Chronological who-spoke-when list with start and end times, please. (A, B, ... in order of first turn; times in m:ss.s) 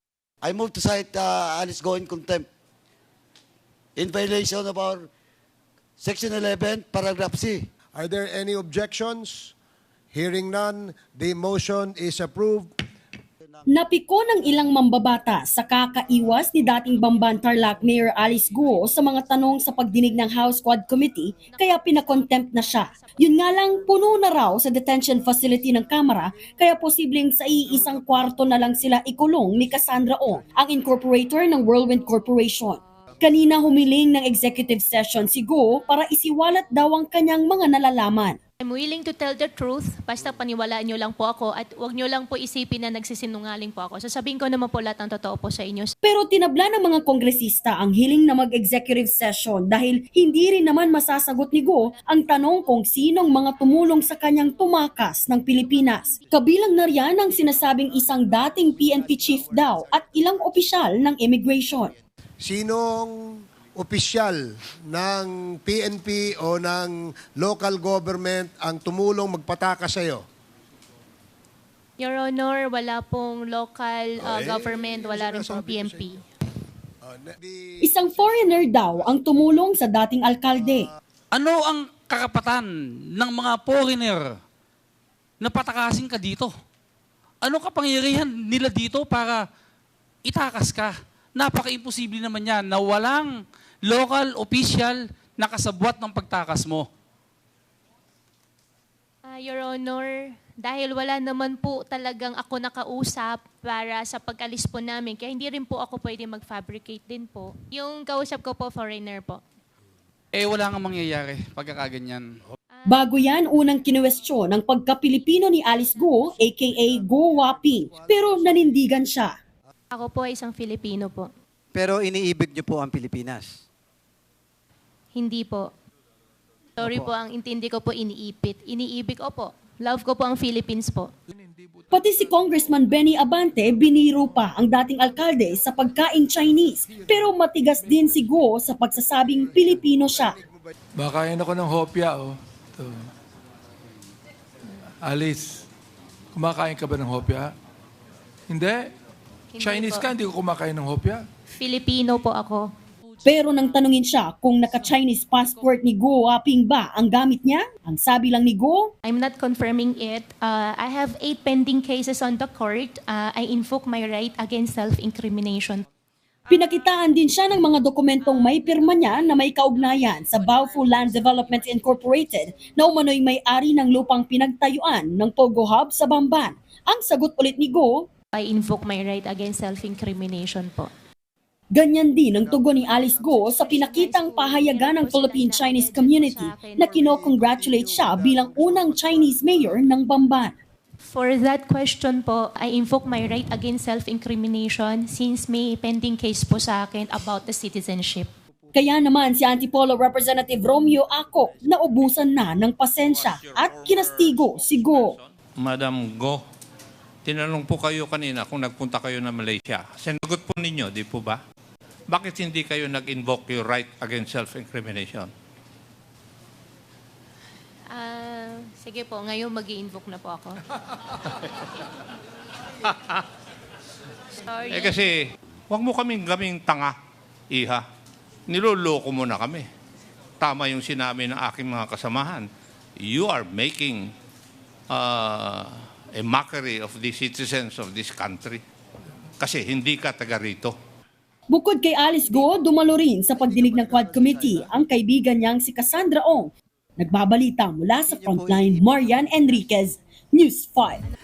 0:00.4-0:02.4 A
0:04.0-0:05.1 A
0:06.0-0:07.7 A
0:07.9-0:09.5 B
0:10.1-0:12.7 B
0:13.7-0:38.4 C
0:21.5-0:23.1 D
0:38.6-0:45.9 D
0:46.0-1:01.9 C
1:02.4-1:03.1 B
1:03.8-1:10.2 B
1:12.0-1:16.2 D
1:14.2-1:16.2 B
1:17.0-1:17.6 B
1:17.8-1:20.9 C
1:21.3-1:24.3 E
1:25.4-1:26.5 E
1:27.4-1:29.4 E
1:30.2-1:36.9 E
1:39.2-1:49.4 D
1:50.3-1:52.3 E
1:52.7-1:53.0 D
1:52.9-1:59.4 C
1:59.9-2:01.3 D
2:01.7-2:03.6 F
2:05.1-2:05.7 D
2:06.8-2:11.1 D
2:06.8-2:07.1 F
2:11.9-2:20.4 C
2:20.2-2:20.7 B
2:21.0-2:23.0 G
2:25.0-2:25.6 G
2:26.3-2:27.5 G
2:28.5-2:28.9 G
2:29.5-2:30.1 D
2:29.6-2:31.2 G
2:31.6-2:32.7 D
2:33.2-2:38.9 C
2:39.0-2:45.8 D
2:46.5-2:58.1 C
2:58.3-3:00.9 D
3:01.7-3:10.5 C
3:02.3-3:03.5 B
3:03.5-3:07.1 D
3:07.0-3:09.8 B
3:11.1-3:18.3 D
3:18.7-3:25.2 C
3:23.0-3:26.4 H
3:27.2-3:31.4 H
3:32.1-3:35.3 H
3:37.9-3:40.6 D
3:42.8-3:43.2 H
3:44.4-3:45.0 D
3:44.7-3:45.1 H
3:45.7-3:46.9 H
3:47.5-3:47.8 H
3:48.5-3:49.6 H
3:50.4-3:52.5 H
3:53.0-3:54.1 H
3:54.9-3:58.6 H
3:59.4-4:00.7 H
4:01.5-4:11.0 C
4:08.0-4:09.6 F